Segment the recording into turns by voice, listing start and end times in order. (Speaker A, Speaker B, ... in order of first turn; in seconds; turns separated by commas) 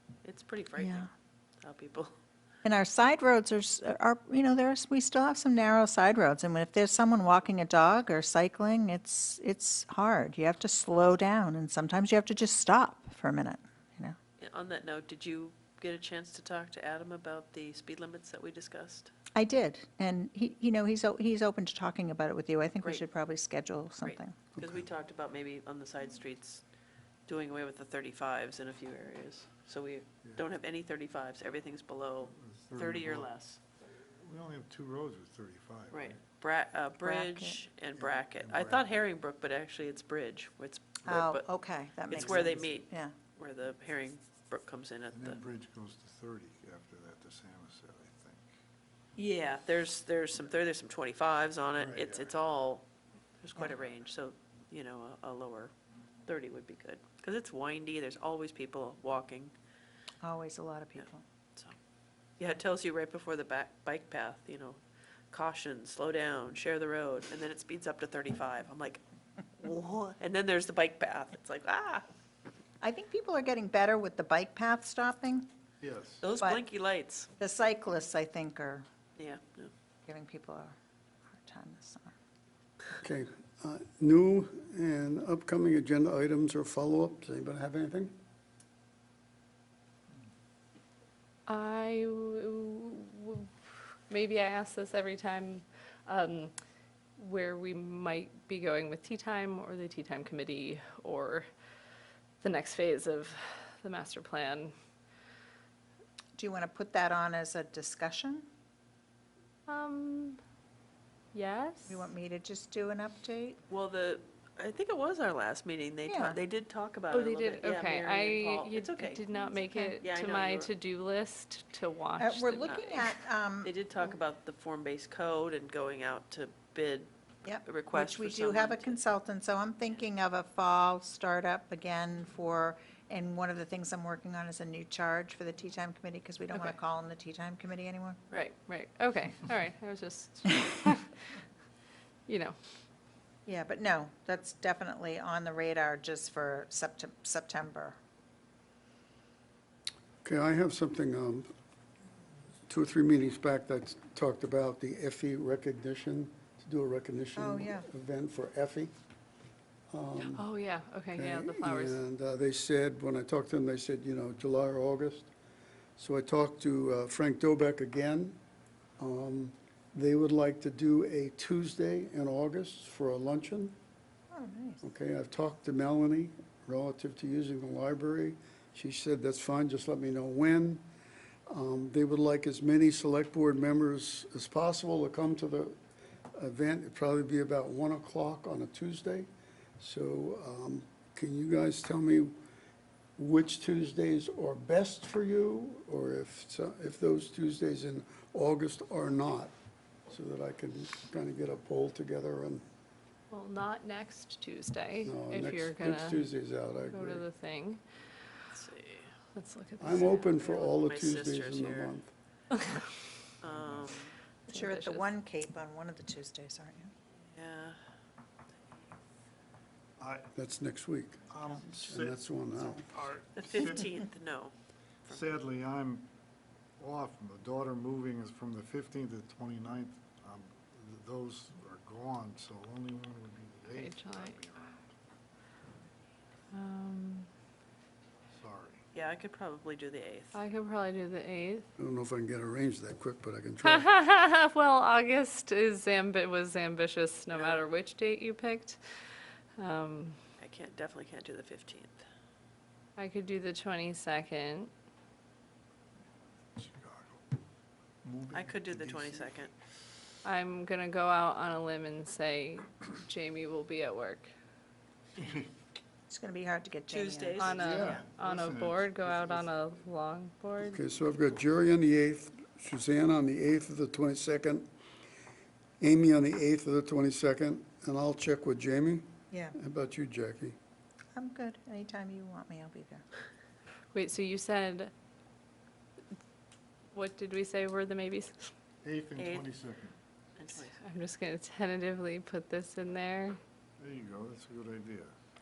Speaker A: 0.2-1.1, Speaker B: 0.8-1.1, Speaker A: 1.6-2.1, Speaker B: 2.6-14.2, Speaker A: 14.4-19.1, Speaker B: 19.3-24.4, Speaker A: 24.0-26.6, Speaker A: 27.3-33.6, Speaker C: 32.2-33.3, Speaker C: 34.1-36.2, Speaker A: 35.9-41.5, Speaker B: 37.0-37.6, Speaker C: 37.9-39.0, Speaker B: 41.1-43.1, Speaker A: 42.1-45.4, Speaker C: 42.1-42.8, Speaker C: 45.1-48.5, Speaker A: 49.1-52.9, Speaker C: 51.8-52.3, Speaker A: 53.4-55.7, Speaker A: 56.2-59.5, Speaker B: 60.2-61.2, Speaker A: 61.0-61.8, Speaker A: 62.4-69.0, Speaker A: 69.6-72.0, Speaker B: 72.8-75.5, Speaker C: 75.8-76.2, Speaker A: 76.2-77.3, Speaker B: 77.4-78.9, Speaker A: 79.2-79.7, Speaker B: 80.0-80.7, Speaker B: 81.3-82.1, Speaker D: 83.0-88.1, Speaker E: 91.5-96.5, Speaker E: 97.2-101.5, Speaker E: 102.4-104.7, Speaker B: 106.3-108.5, Speaker E: 109.7-110.4, Speaker E: 111.3-112.1, Speaker B: 111.9-113.6, Speaker A: 113.7-119.2, Speaker B: 116.0-116.4, Speaker E: 117.1-122.8, Speaker B: 119.3-119.9, Speaker A: 120.0-120.7, Speaker B: 122.2-123.7, Speaker A: 122.7-123.0, Speaker A: 123.6-127.1, Speaker B: 127.4-138.2, Speaker A: 127.6-129.0, Speaker E: 138.3-141.2, Speaker E: 142.3-142.6, Speaker B: 143.4-147.9, Speaker D: 150.2-151.5, Speaker D: 152.7-158.9, Speaker B: 157.4-157.9, Speaker D: 159.9-160.4, Speaker E: 160.2-162.0, Speaker D: 161.1-165.3, Speaker D: 166.0-168.4, Speaker D: 169.0-173.7, Speaker B: 174.3-174.8, Speaker D: 174.8-180.8, Speaker D: 181.5-185.8, Speaker D: 186.3-192.4, Speaker D: 193.2-199.5, Speaker D: 200.1-202.6, Speaker E: 203.3-206.3, Speaker D: 205.0-207.2, Speaker E: 206.9-207.8, Speaker A: 208.5-209.1, Speaker E: 209.3-210.7, Speaker D: 209.8-212.1, Speaker A: 210.8-212.0, Speaker A: 213.4-214.1, Speaker C: 213.5-213.9, Speaker E: 214.5-215.0, Speaker B: 214.5-216.9, Speaker A: 217.3-217.8, Speaker C: 220.0-220.3, Speaker D: 220.3-221.2, Speaker C: 221.3-223.9, Speaker D: 221.8-222.8, Speaker A: 223.3-224.5, Speaker C: 225.1-226.1, Speaker C: 226.8-234.8, Speaker E: 233.7-234.4, Speaker E: 236.5-237.3, Speaker C: 238.3-238.8, Speaker A: 238.9-240.4, Speaker E: 240.3-241.7, Speaker D: 241.8-243.9, Speaker E: 243.6-248.8, Speaker A: 247.3-247.7, Speaker E: 249.6-250.2, Speaker A: 250.4-252.0, Speaker E: 253.0-254.7, Speaker C: 256.5-257.2, Speaker C: 258.0-259.5, Speaker A: 258.3-259.5, Speaker E: 260.2-264.3, Speaker B: 266.1-267.5, Speaker A: 266.9-268.1, Speaker E: 267.4-270.8, Speaker C: 267.5-269.7, Speaker D: 270.6-274.7, Speaker D: 275.8-280.6, Speaker B: 279.3-279.6, Speaker B: 281.1-283.0, Speaker E: 283.9-284.9, Speaker E: 286.9-288.5, Speaker C: 288.8-290.0, Speaker A: 289.2-289.4, Speaker A: 290.4-290.8, Speaker E: 290.7-293.4, Speaker C: 293.8-295.1